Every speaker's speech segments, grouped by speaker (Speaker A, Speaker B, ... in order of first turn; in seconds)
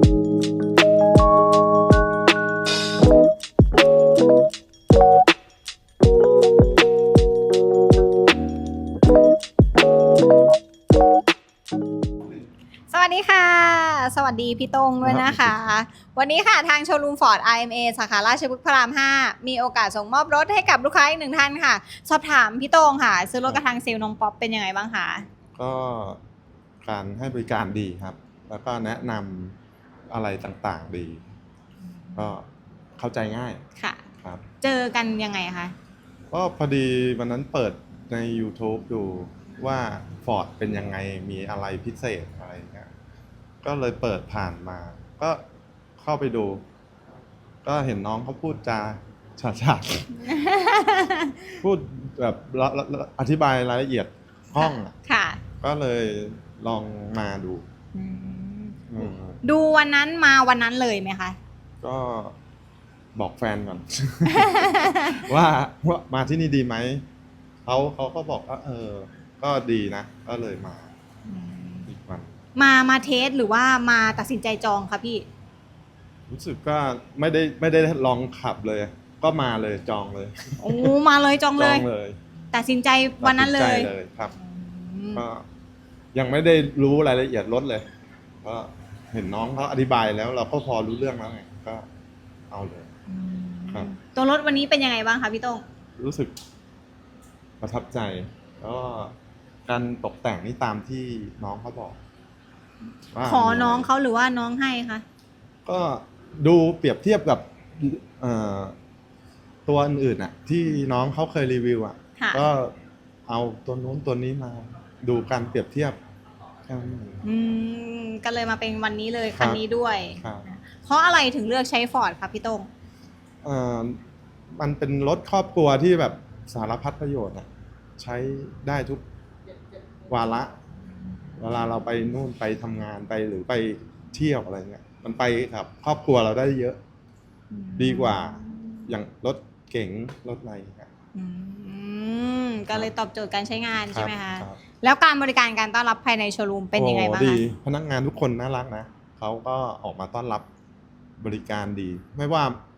Speaker A: 12.9-25.2, 34.6-35.7, 50.2-51.5, 54.6-55.4, 57.9-61.4, 64.3-65.2, 71.3-71.9, 72.5-75.2, 80.6-81.8, 82.5-83.9, 84.4-85.2, 93.1-95.6, 103.2-105.0, 112.2-112.4, 117.2-122.7, 137.5-138.8, 141.1-147.4
Speaker B: 15.0-15.6, 25.6-26.2, 26.8-29.6, 30.1-31.2, 32.1-33.6, 36.3-42.9, 43.6-45.4, 46.0-46.6, 47.6-50.1, 51.6-54.9, 55.6-57.6, 58.9-59.4, 61.8-62.4, 63.1-67.0, 67.7-70.9, 71.9-72.3, 76.3-81.0, 81.5-82.2, 83.2-84.3, 85.1-85.5, 86.1-87.8, 88.4-91.8, 92.5-92.9, 96.0-96.3, 97.6-99.1, 99.7-102.0, 103.1-103.9, 105.7-108.7, 109.7-112.7, 113.3-116.0, 116.7-117.2, 119.3-119.6, 120.2-120.4, 123.4-124.0, 124.5-129.0, 130.1-130.5, 131.4-136.8, 137.8-140.9, 143.9-144.6, 146.7-150.5, 151.2-152.6